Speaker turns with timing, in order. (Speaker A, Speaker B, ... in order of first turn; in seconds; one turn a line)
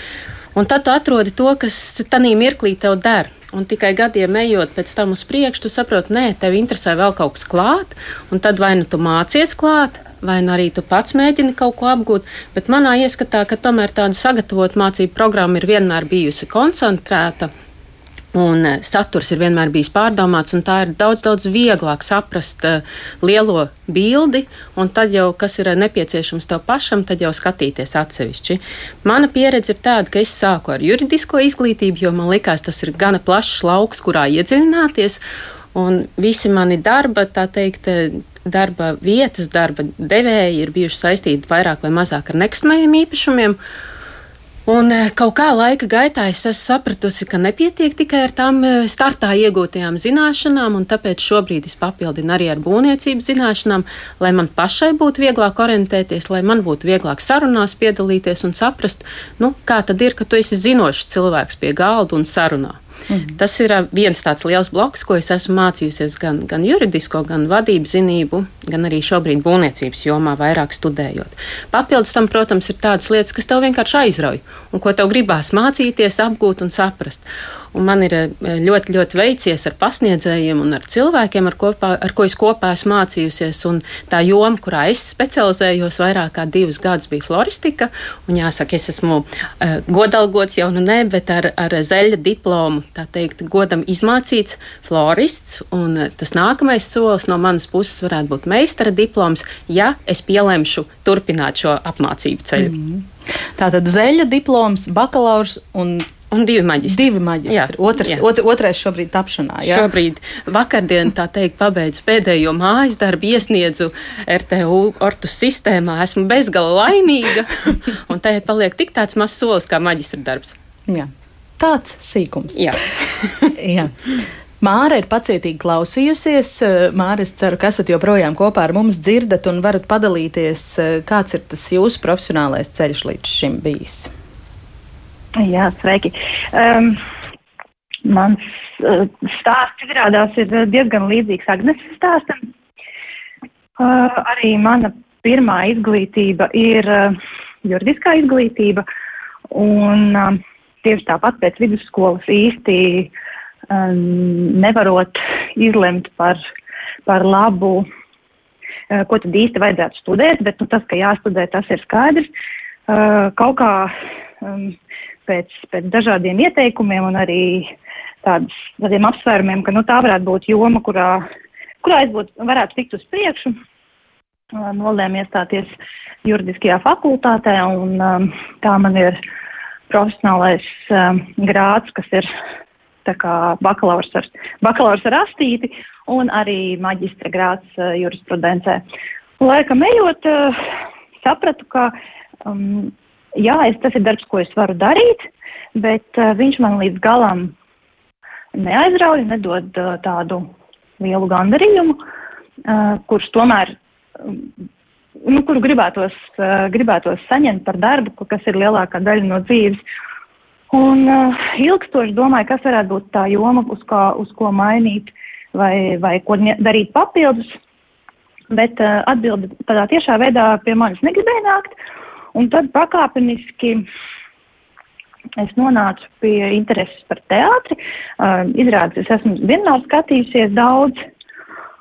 Speaker A: 0.6-17.5
Speaker A: 18.3-35.2
Speaker A: 35.7-43.6
Speaker A: 44.7-62.8
Speaker B: 63.1-63.4
Speaker A: 63.4-102.8
Speaker B: 102.6-106.1
Speaker A: 106.3-108.2
Speaker B: 106.8-109.9
Speaker A: 109.6-120.5
Speaker B: 120.9-122.7
Speaker A: 122.5-123.5
Speaker B: 123.5-134.1
Speaker C: 135.4-137.0
Speaker C: 138.1-142.4
Speaker C: 143.8-148.8
Speaker C: 149.5-153.1
Speaker C: 153.7-156.4
Speaker C: 157.1-157.9
Speaker C: 158.9-162.3
Speaker C: 162.9-164.8
Speaker C: 165.3-171.2
Speaker C: 171.8-173.6
Speaker C: 174.5-175.7
Speaker C: 176.2-179.2
Speaker C: 179.9-182.3
Speaker C: 183.1-188.8
Speaker C: 189.4-190.7
Speaker C: 191.2-191.9
Speaker C: 192.4-197.6
Speaker C: 198.6-202.0
Speaker C: 202.7-204.4
Speaker C: 205.2-209.8
Speaker C: 210.7-217.5
Speaker C: 218.5-221.8
Speaker C: 222.3-223.8
Speaker C: 225.4-231.0